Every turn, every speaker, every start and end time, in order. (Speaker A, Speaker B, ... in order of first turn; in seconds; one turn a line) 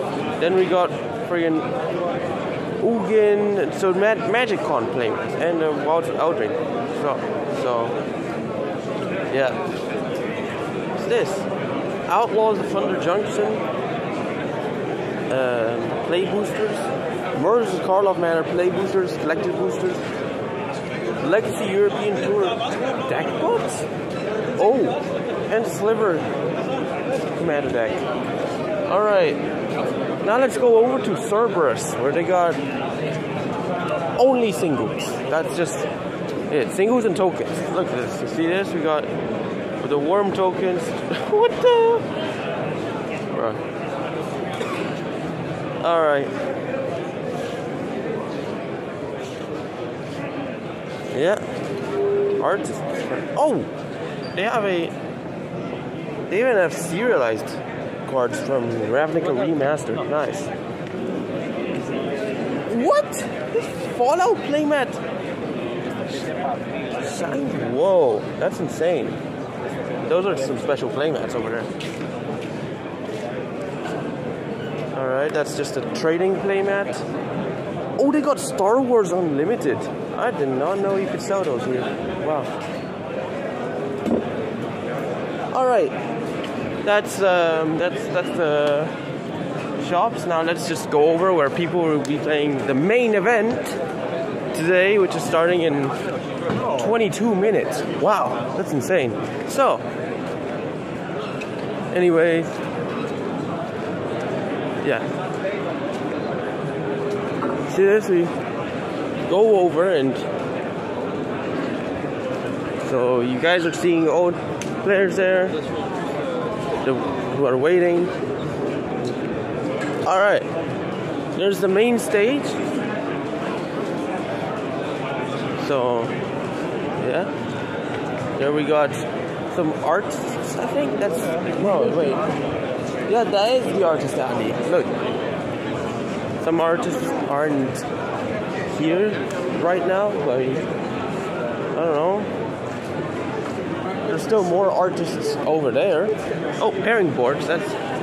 Speaker A: 0.4-1.7
Speaker A: 2.8-8.0
Speaker A: 9.3-9.6
Speaker A: 10.9-11.5
Speaker A: 12.1-13.6
Speaker A: 15.3-20.1
Speaker A: 21.2-23.9
Speaker A: 24.6-26.3
Speaker A: 27.3-28.1
Speaker A: 28.9-29.4
Speaker A: 30.2-32.6
Speaker A: 34.2-35.9
Speaker A: 36.5-39.1
Speaker A: 39.8-42.1
Speaker A: 43.3-43.6
Speaker A: 45.8-46.3
Speaker A: 51.1-51.4
Speaker A: 52.4-53.7
Speaker A: 54.3-55.0
Speaker A: 56.3-60.5
Speaker A: 62.7-65.0
Speaker A: 66.9-69.2
Speaker A: 70.0-71.7
Speaker A: 75.0-77.0
Speaker A: 78.0-82.5
Speaker A: 85.5-86.0
Speaker A: 86.8-89.0
Speaker A: 89.8-93.8
Speaker A: 94.5-96.0
Speaker A: 96.7-99.8
Speaker A: 101.9-102.5
Speaker A: 107.7-108.3
Speaker A: 109.3-110.3
Speaker A: 112.8-115.6
Speaker A: 116.8-118.1
Speaker A: 120.0-120.5
Speaker A: 121.3-122.6
Speaker A: 125.6-126.2
Speaker A: 127.0-127.3
Speaker A: 128.4-132.2
Speaker A: 133.1-134.9
Speaker A: 136.4-137.9
Speaker A: 138.7-140.7
Speaker A: 141.7-142.3
Speaker A: 144.1-147.8